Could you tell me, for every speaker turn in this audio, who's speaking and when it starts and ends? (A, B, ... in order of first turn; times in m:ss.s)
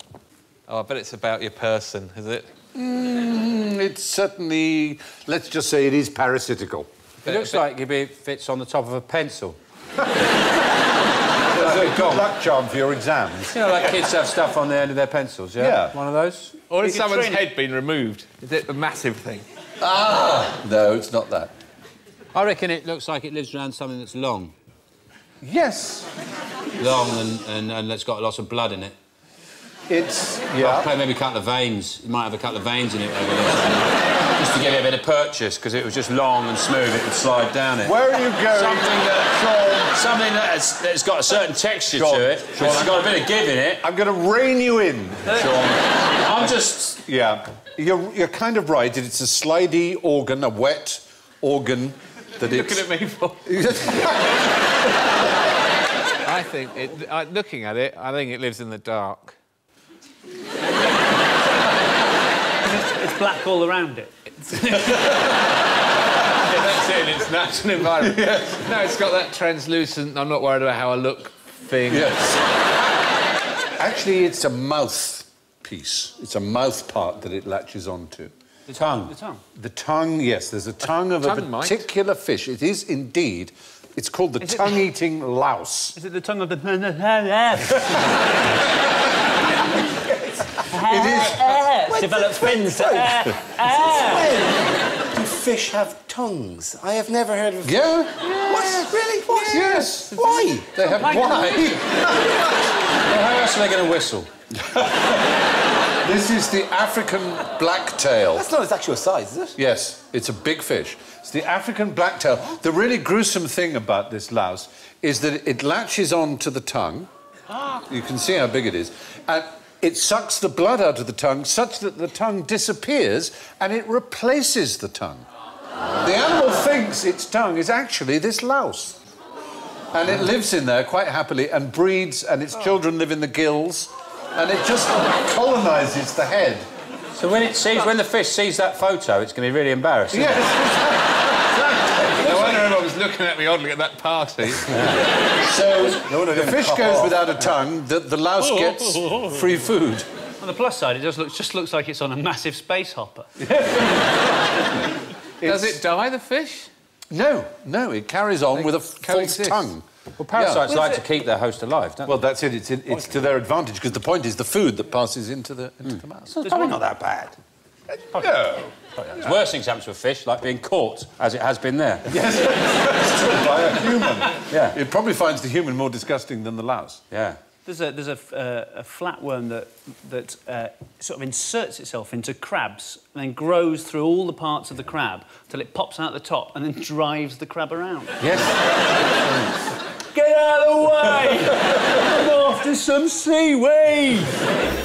0:00.7-0:02.5 A
0:02.7-0:06.9 B
0:07.3-0:07.6 A
0:07.3-0:09.6 C
0:11.5-0:13.6 B
0:11.5-0:12.3 C
0:13.5-0:16.6 C
0:15.6-0:16.0 B
0:16.7-0:19.4 A
0:16.8-0:17.4 D
0:19.8-0:21.5 B
0:22.3-0:24.5 C
0:25.4-0:26.1 B
0:26.8-0:28.9 C
0:29.9-0:30.9 B
0:30.6-0:43.8 C
0:37.8-0:40.0 B
0:41.9-0:43.2 B
0:43.8-0:52.8 B
0:46.2-0:47.0 C
0:52.4-0:53.4 A
0:53.4-0:54.6 B
0:56.2-0:59.4 A
1:02.6-1:05.1 D
1:06.4-1:12.1 A
1:08.0-1:08.5 B
1:11.9-1:12.4 B
1:13.8-1:18.3 B
1:18.7-1:19.4 D
1:18.7-1:19.1 C
1:19.6-1:26.0 B
1:21.2-1:21.8 A
1:24.4-1:24.8 D
1:26.0-1:28.2 D
1:30.6-1:34.3 D
1:30.8-1:31.4 B
1:31.9-1:40.9 E
1:37.6-1:42.4 B
1:41.0-1:41.8 C
1:42.9-1:44.3 C
1:44.6-1:45.2 B
1:46.0-1:48.5 B
1:48.3-1:49.6 E
1:49.6-1:57.1 B
1:57.9-2:05.2 B
2:06.0-2:09.0 B
2:09.9-2:16.6 B
2:17.2-2:20.5 C
2:20.1-2:22.6 B
2:22.2-2:24.8 A
2:24.7-2:25.0 C
2:25.5-2:30.1 B
2:25.8-2:27.3 C
2:30.4-2:33.3 D
2:33.4-2:34.0 B
2:35.4-2:35.8 B
2:35.4-2:36.7 A
2:37.1-2:40.7 B
2:38.6-2:39.7 A
2:40.2-2:42.2 C
2:40.6-2:41.0 D
2:42.0-2:46.4 B
2:46.4-2:47.3 C
2:46.4-2:46.9 D
2:48.0-2:49.2 B
2:49.1-2:52.1 C
2:52.1-2:57.0 B
2:54.5-2:54.8 C
2:57.1-2:57.4 C
2:57.6-3:08.2 D
3:08.2-3:08.5 C
3:10.1-3:14.1 D